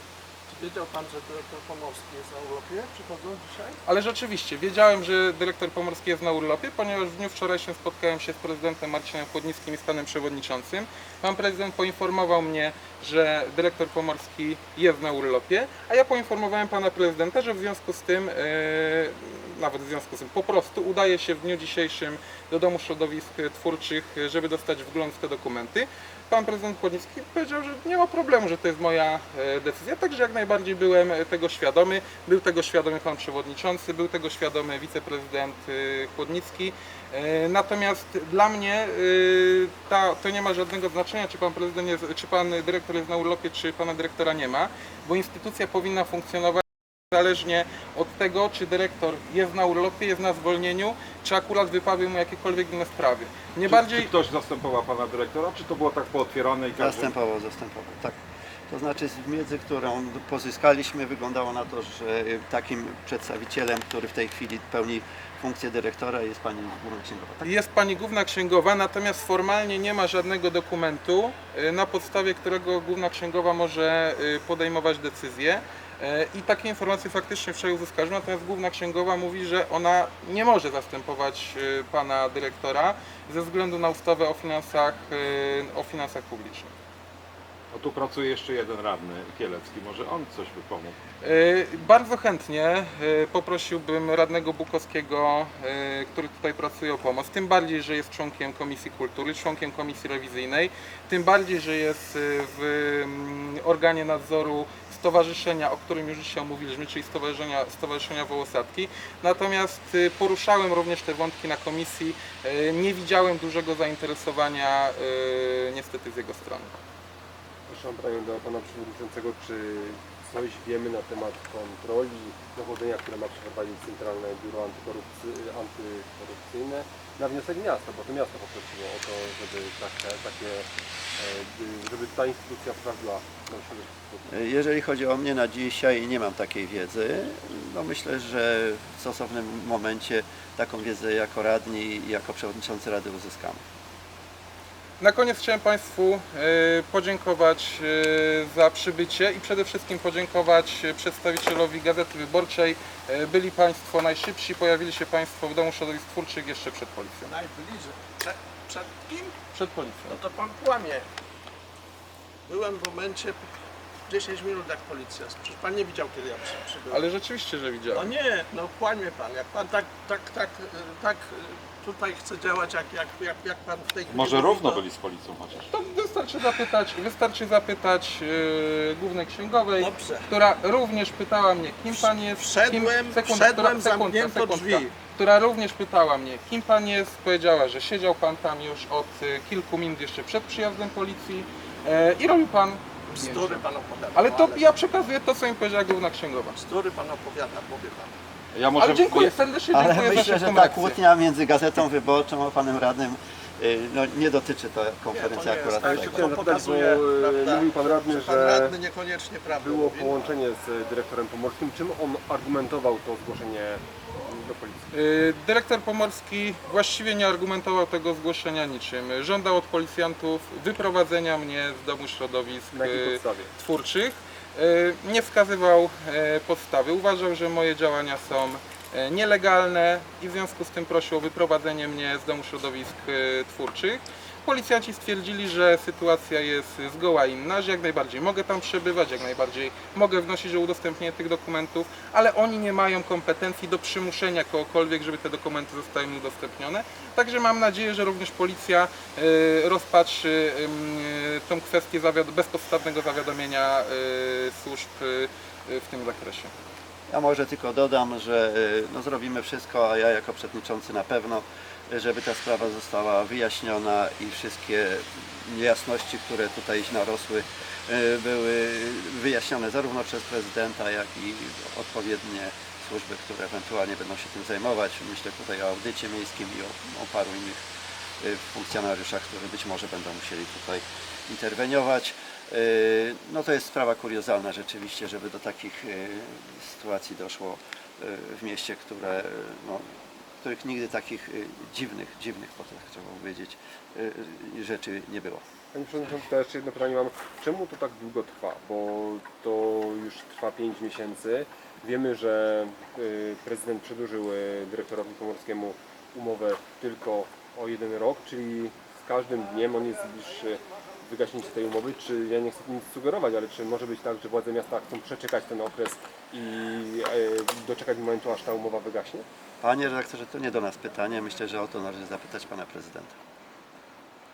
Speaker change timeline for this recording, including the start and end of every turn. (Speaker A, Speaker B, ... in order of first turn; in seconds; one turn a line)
Speaker A: 0.5-3.8
Speaker B: 3.8-54.1
Speaker C: 53.7-57.1
Speaker D: 56.8-58.2
Speaker D: 58.7-67.5
Speaker B: 67.4-86.7
Speaker C: 87.7-91.0
Speaker B: 91.2-116.7
Speaker E: 117.7-134.3
Speaker D: 134.3-143.6
Speaker B: 145.0-157.3
Speaker A: 157.2-159.4
Speaker B: 159.5-160.2
Speaker A: 160.1-161.1
Speaker A: 162.4-163.5
Speaker A: 164.1-167.0
Speaker B: 166.9-168.1
Speaker A: 167.9-174.8
Speaker C: 174.1-175.7
Speaker B: 175.7-193.6
Speaker A: 179.8-180.3
Speaker A: 181.9-184.9
Speaker A: 193.1-194.7
Speaker B: 194.1-196.6
Speaker A: 196.6-198.1
Speaker C: 198.5-199.3
Speaker B: 198.8-201.0
Speaker D: 199.7-206.3
Speaker A: 205.1-210.3
Speaker E: 205.8-208.8
Speaker E: 209.5-214.9
Speaker B: 214.9-256.5
Speaker E: 222.7-223.5
Speaker D: 257.1-277.6
Speaker D: 278.2-289.9
Speaker D: 290.4-295.4
Speaker E: 295.7-319.2
Speaker D: 319.6-323.1